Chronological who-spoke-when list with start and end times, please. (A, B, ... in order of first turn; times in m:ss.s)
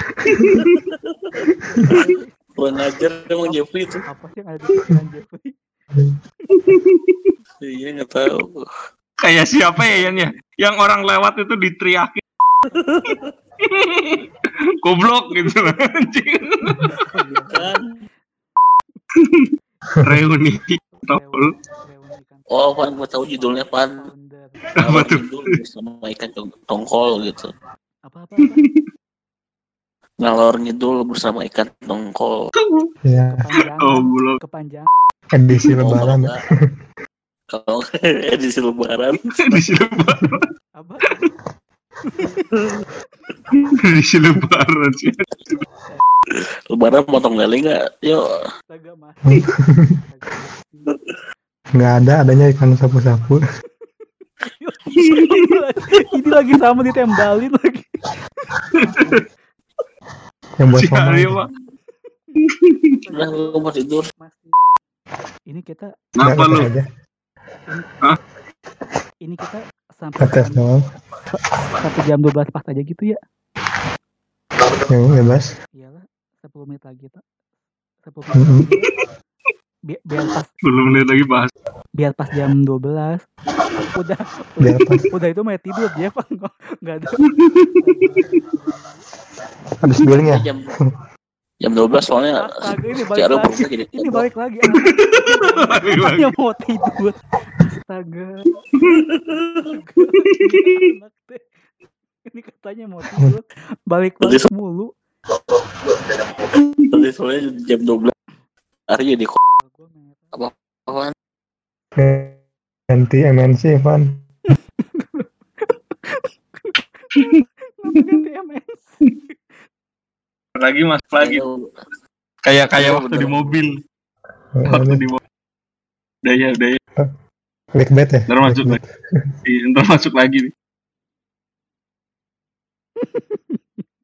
0:00.2-0:00.6 A
0:00.4-0:00.7 B
0:00.5-0:01.4 C
0:01.6-0:02.4 D
0:02.6-0:04.0 C
0:03.4-0:05.6 D
0:06.6-0:07.3 B
0:07.6-0:08.7 C
0:09.2-0:12.2 B
0:12.9-0:13.3 C
0:13.7-0:14.2 B
0:14.8-0:17.0 B
0:16.9-0:17.7 D
0:17.5-0:18.0 C
0:19.2-0:19.5 B
0:20.0-0:21.5 B
0:21.0-0:24.6 D
0:22.5-0:24.0 C
0:24.8-0:27.5 C
0:24.8-0:25.3 B
0:28.0-0:28.6 D
0:28.4-0:28.8 B
0:30.2-0:32.3 C
0:32.6-0:32.9 B
0:33.1-0:33.5 A
0:33.3-0:34.9 D
0:33.8-0:34.4 B
0:35.3-0:36.3 A
0:35.8-0:36.4 C
0:37.5-0:39.6 C
0:39.4-0:40.5 B
0:40.8-0:41.2 D
0:43.5-0:45.6 B
0:46.7-0:48.2 C
0:48.7-0:49.5 D
0:49.2-0:50.0 A
0:50.0-0:50.9 D
0:51.8-0:53.4 A
0:54.4-0:57.9 D
0:55.0-0:55.5 B
0:58.8-0:59.2 B
1:00.6-1:01.4 A
1:00.8-1:01.5 B
1:03.0-1:04.5 D
1:03.1-1:04.1 C
1:05.5-1:05.9 D
1:06.2-1:06.7 B
1:06.2-1:06.8 A
1:09.2-1:10.6 D
1:10.2-1:10.8 A
1:11.7-1:13.2 D
1:14.9-1:15.5 A
1:15.7-1:17.2 D
1:18.0-1:18.9 D
1:18.3-1:18.7 A
1:19.9-1:20.5 D
1:20.6-1:21.5 B
1:22.0-1:23.3 D
1:23.9-1:27.3 D
1:24.6-1:25.0 A
1:27.2-1:27.9 B
1:27.8-1:29.0 D
1:29.8-1:30.9 A
1:30.0-1:30.7 C
1:31.6-1:34.2 C
1:32.3-1:37.2 D
1:34.8-1:36.3 B
1:37.7-1:38.6 D
1:38.9-1:39.5 C
1:39.6-1:41.5 D
1:40.2-1:40.8 B
1:42.2-1:44.9 D
1:44.2-1:44.5 C
1:46.9-1:48.1 C
1:48.9-1:49.4 C
1:49.6-1:50.3 D
1:50.3-1:51.1 C
1:52.0-1:52.3 A
1:52.9-1:54.1 A
1:54.8-1:59.4 D
2:00.6-2:01.4 B
2:01.2-2:01.7 C
2:02.4-2:03.8 B
2:02.7-2:03.7 C
2:04.5-2:05.0 A
2:04.7-2:05.2 B
2:06.2-2:06.8 B
2:07.7-2:08.9 A
2:08.3-2:08.8 B
2:09.4-2:10.5 B
2:13.0-2:13.6 D